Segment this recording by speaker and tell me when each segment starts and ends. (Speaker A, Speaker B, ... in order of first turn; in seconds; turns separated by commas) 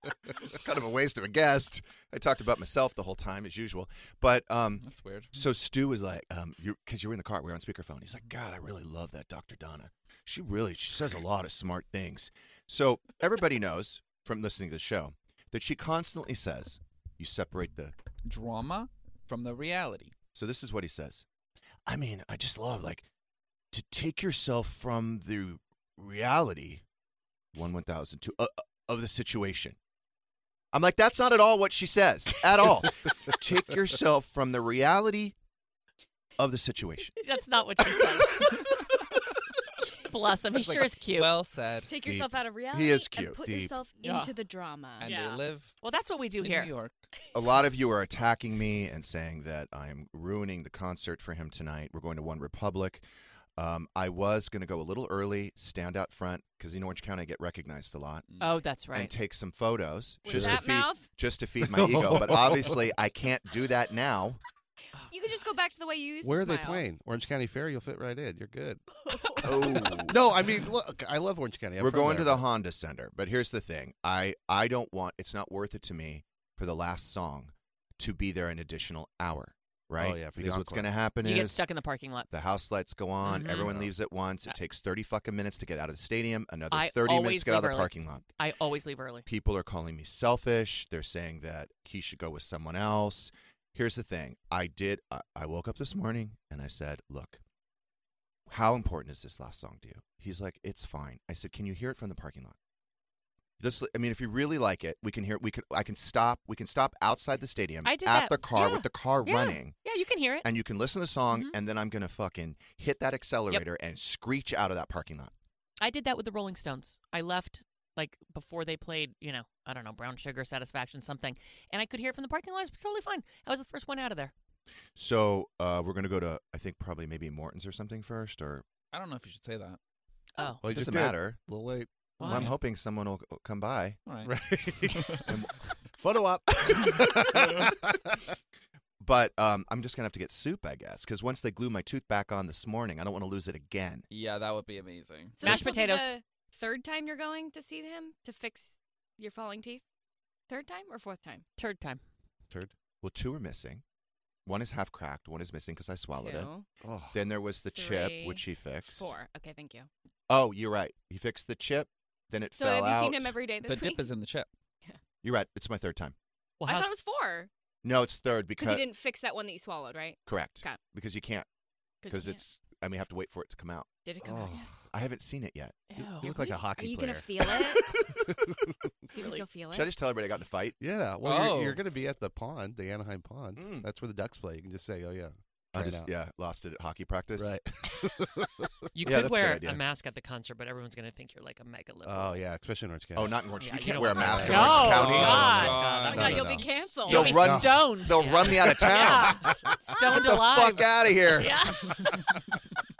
Speaker A: 0.4-17.9, Speaker B: 4.8-5.4, Speaker B: 18.2-20.1, Speaker A: 20.3-21.2, Speaker A: 21.9-23.1, Speaker A: 23.7-26.8, Speaker A: 27.5-29.8, Speaker A: 30.7-35.3, Speaker A: 36.4-37.1, Speaker C: 37.2-38.6, Speaker C: 40.0-41.3, Speaker B: 40.5-42.0, Speaker D: 41.8-45.3, Speaker A: 42.7-43.5, Speaker E: 43.4-43.7, Speaker C: 44.0-44.3, Speaker B: 45.0-45.7, Speaker C: 45.0-46.7, Speaker B: 46.4-47.0, Speaker A: 47.3-53.0, Speaker A: 53.6-58.2, Speaker C: 58.4-59.1, Speaker A: 58.9-64.4, Speaker D: 60.2-61.1, Speaker E: 60.3-60.6, Speaker E: 61.6-62.9, Speaker D: 65.1-66.8, Speaker E: 66.2-68.8, Speaker D: 69.0-70.1, Speaker A: 69.4-70.2, Speaker E: 70.0-72.4, Speaker A: 71.8-81.6, Speaker E: 80.0-80.9, Speaker C: 81.2-82.3, Speaker A: 82.3-88.2, Speaker C: 83.2-83.7, Speaker E: 83.5-83.9, Speaker C: 86.7-89.2, Speaker A: 89.2-97.4, Speaker A: 98.5-102.5, Speaker A: 103.6-109.8, Speaker C: 107.8-110.5, Speaker A: 110.4-115.3, Speaker C: 115.8-124.3, Speaker A: 125.0-128.6, Speaker B: 128.9-129.8, Speaker E: 130.6-132.5, Speaker A: 130.6-131.4, Speaker C: 132.2-132.5, Speaker A: 132.2-134.0, Speaker B: 134.1-134.3, Speaker E: 134.2-135.3, Speaker B: 134.9-135.2, Speaker E: 136.0-138.2, Speaker A: 139.0-144.0, Speaker B: 144.1-145.5, Speaker D: 145.4-149.8, Speaker C: 145.4-146.2, Speaker D: 150.5-151.4, Speaker C: 151.6-152.0, Speaker A: 153.0-153.8, Speaker A: 154.4-156.5, Speaker D: 156.1-156.7, Speaker E: 156.8-157.2, Speaker A: 157.1-159.1, Speaker D: 157.7-159.9, Speaker A: 160.3-163.3, Speaker D: 162.6-164.1, Speaker B: 163.6-164.5, Speaker A: 165.2-166.1, Speaker F: 166.6-167.0, Speaker D: 166.6-167.5, Speaker A: 167.8-168.9, Speaker D: 168.6-170.8, Speaker A: 170.2-171.5, Speaker D: 172.0-172.4, Speaker A: 172.1-173.9, Speaker D: 174.0-174.7, Speaker E: 174.2-174.7, Speaker A: 174.9-175.8, Speaker C: 175.9-176.5, Speaker E: 176.1-178.8, Speaker D: 176.2-177.8, Speaker D: 179.1-179.9, Speaker A: 179.7-180.8, Speaker E: 180.8-186.1, Speaker B: 181.2-181.8, Speaker A: 183.5-183.9, Speaker A: 185.7-187.6, Speaker E: 187.4-188.7, Speaker F: 188.9-192.4, Speaker A: 189.0-189.8, Speaker E: 192.0-193.4, Speaker A: 193.1-195.7, Speaker F: 193.6-196.6, Speaker E: 193.9-196.5, Speaker C: 194.4-196.4, Speaker B: 194.8-196.7, Speaker D: 195.9-197.6, Speaker C: 197.0-202.0, Speaker A: 197.1-201.7, Speaker E: 197.2-197.9, Speaker D: 201.3-201.9